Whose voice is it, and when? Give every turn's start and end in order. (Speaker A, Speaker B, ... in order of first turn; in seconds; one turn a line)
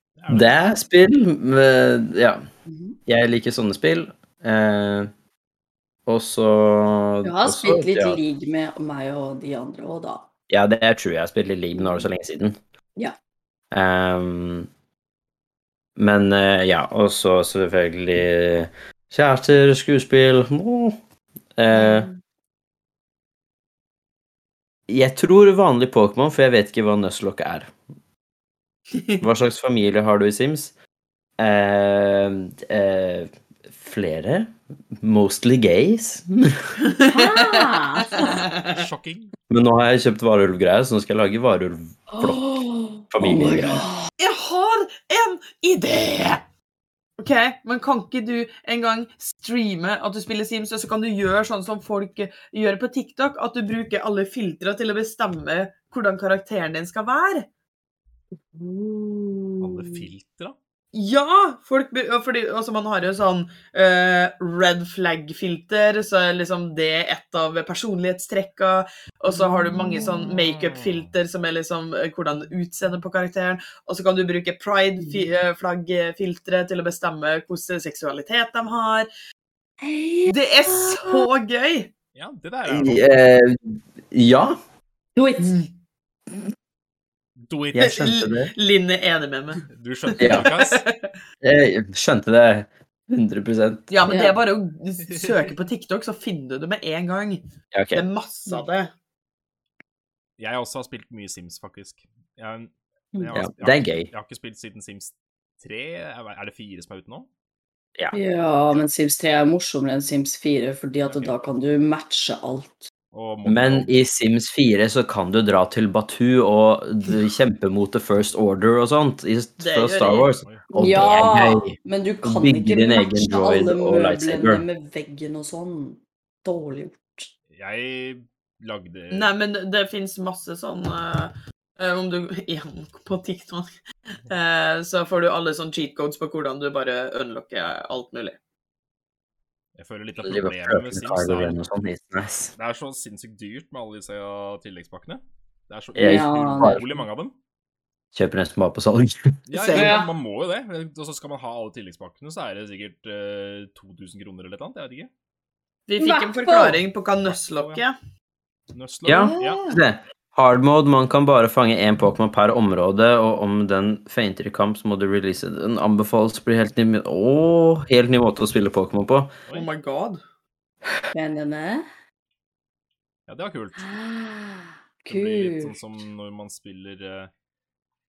Speaker A: 0.2-0.7
Speaker B: 0.3-2.4
Speaker C: 2.7-3.0
Speaker B: 3.1-5.1
Speaker B: 6.0-8.2
Speaker C: 7.2-10.3
Speaker B: 10.5-12.6
Speaker C: 11.7-12.1
Speaker B: 13.7-14.7
Speaker B: 15.9-20.9
Speaker B: 21.6-22.1
Speaker C: 21.7-22.2
Speaker B: 24.9-27.7
Speaker D: 28.9-29.2
Speaker B: 29.2-30.7
Speaker B: 31.4-36.6
Speaker D: 36.8-38.8
Speaker C: 37.1-38.5
Speaker A: 38.6-39.3
Speaker B: 39.5-42.6
Speaker C: 42.1-44.1
Speaker B: 43.1-43.9
Speaker D: 44.2-46.4
Speaker D: 47.2-57.5
Speaker C: 58.5-60.0
Speaker A: 59.6-60.5
Speaker D: 60.9-79.1
Speaker C: 69.3-70.3
Speaker A: 70.5-71.1
Speaker C: 75.0-75.3
Speaker C: 79.8-81.3
Speaker D: 80.3-81.9
Speaker A: 82.1-83.1
Speaker B: 82.7-84.6
Speaker C: 85.2-85.5
Speaker D: 85.4-85.7
Speaker A: 87.4-88.0
Speaker B: 87.7-88.5
Speaker D: 87.8-89.6
Speaker A: 89.7-90.8
Speaker B: 90.2-90.5
Speaker D: 90.2-91.1
Speaker B: 91.4-93.9
Speaker D: 93.9-97.4
Speaker C: 94.1-94.3
Speaker A: 95.1-95.4
Speaker B: 97.7-98.0
Speaker D: 97.9-98.9
Speaker A: 100.4-107.3
Speaker B: 103.3-104.1
Speaker C: 108.1-112.9
Speaker A: 111.0-111.3
Speaker A: 113.1-114.0
Speaker B: 113.5-124.6
Speaker D: 119.6-120.3
Speaker C: 120.7-127.3
Speaker A: 127.5-129.3
Speaker D: 129.1-133.7
Speaker D: 134.3-138.4
Speaker A: 139.8-141.6
Speaker B: 140.2-142.5
Speaker A: 142.5-147.3
Speaker B: 145.9-146.8
Speaker C: 146.0-147.0
Speaker B: 148.1-149.3
Speaker A: 149.5-155.1
Speaker D: 149.6-149.9
Speaker C: 149.7-150.1
Speaker D: 155.9-157.9
Speaker C: 156.0-156.8
Speaker A: 157.2-157.8
Speaker A: 158.7-159.8
Speaker B: 159.1-169.3
Speaker C: 159.2-159.8
Speaker D: 169.5-170.2
Speaker C: 171.1-171.8
Speaker A: 173.3-173.9
Speaker C: 173.8-175.8
Speaker A: 175.1-177.3